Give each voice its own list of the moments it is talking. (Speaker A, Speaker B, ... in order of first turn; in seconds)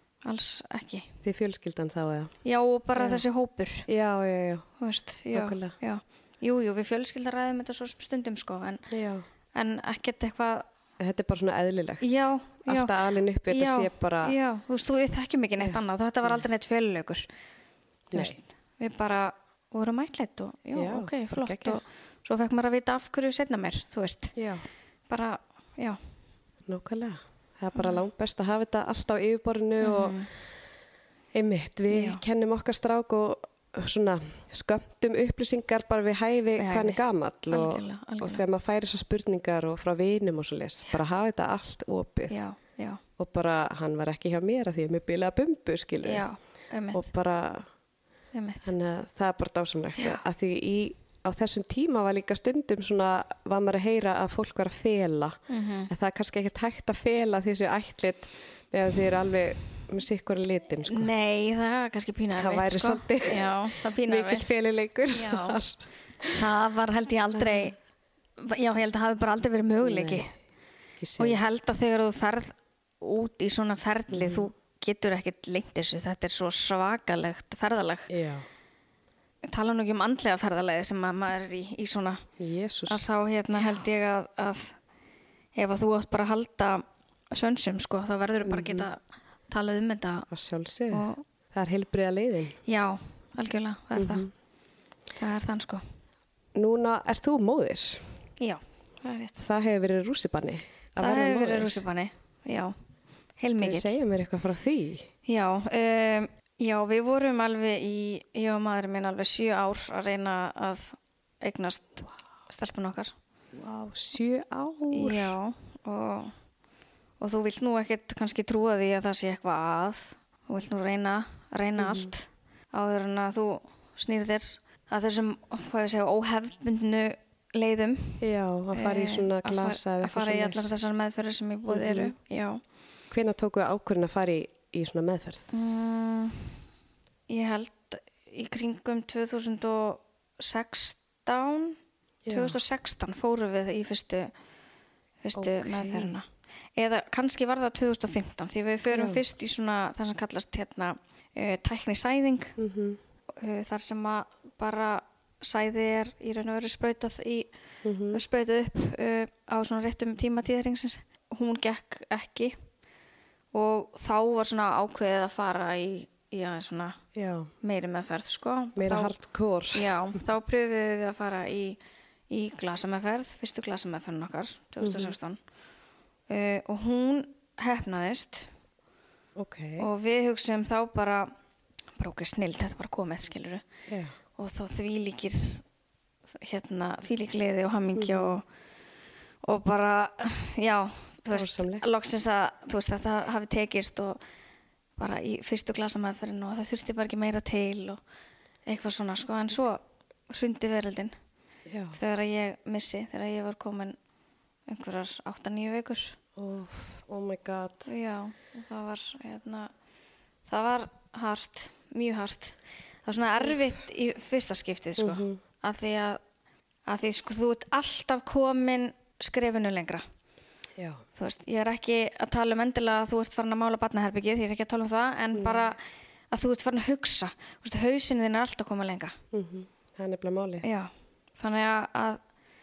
Speaker A: 0.3-1.1, 2.5-3.9, 4.8-8.8, 9.5-10.7, 12.0-12.9, 13.5-17.3, 18.1-24.4, 25.1-26.0, 29.8-30.3, 31.9-32.2, 36.6-38.4, 42.3-43.0, 46.0-47.1, 48.3-48.7, 55.5-55.9, 60.9-64.5, 65.1-65.6, 66.3-67.8, 68.4-70.3, 71.2-78.1, 79.4-82.2, 82.9-84.8, 85.6-90.3, 90.9-91.2, 92.7-94.3, 95.2-95.8, 98.4-99.5, 101.0-102.8, 103.4-104.0, 105.3-113.1, 114.9-116.3, 117.2-132.6, 135.5-136.6, 137.3-141.8, 142.3-144.3, 145.2-152.6, 153.3-157.5, 158.1-162.6, 163.5-167.0, 167.6-169.2, 169.7-175.4, 176.3-178.5, 179.8-181.3, 182.0-183.6, 184.4-185.6, 186.3-188.5, 189.4-194.2, 195.0-198.0, 198.7-201.2, 201.9-204.0, 204.7-206.2, 207.9-209.7, 210.5-216.2, 216.9-220.0, 221.2-225.8, 226.3-229.2, 230.6-232.2
Speaker B: 1.2-2.3, 3.0-3.2, 3.9-4.7, 5.3-5.7, 8.9-9.2, 11.0-14.3, 15.6-16.4, 18.1-18.4, 20.8-21.8, 24.4-24.6, 26.7-30.2, 31.3-42.4, 43.2-46.3, 46.9-47.7, 48.6-55.4, 55.9-61.1, 62.4-66.4, 67.4-67.7, 69.8-70.3, 71.0-71.5, 74.1-74.5, 78.1-78.5, 82.4-83.1, 88.4-88.9, 90.3-92.6, 94.0-94.3, 96.5-98.1, 99.4-101.8, 103.6-105.1, 113.5-115.4, 121.8-122.1, 128.2-130.7, 131.7-132.1, 133.1-135.5, 142.2-142.6, 145.4-146.2, 148.9-149.2, 152.6-153.0, 157.8-158.2, 167.2-167.5, 168.8-170.2, 174.8-175.1, 179.4-179.9, 183.9-184.1, 187.9-188.4, 191.3-191.9, 201.7-202.0, 206.4-207.9, 215.0-215.4, 220.8-221.0, 225.3-225.7, 229.3-230.7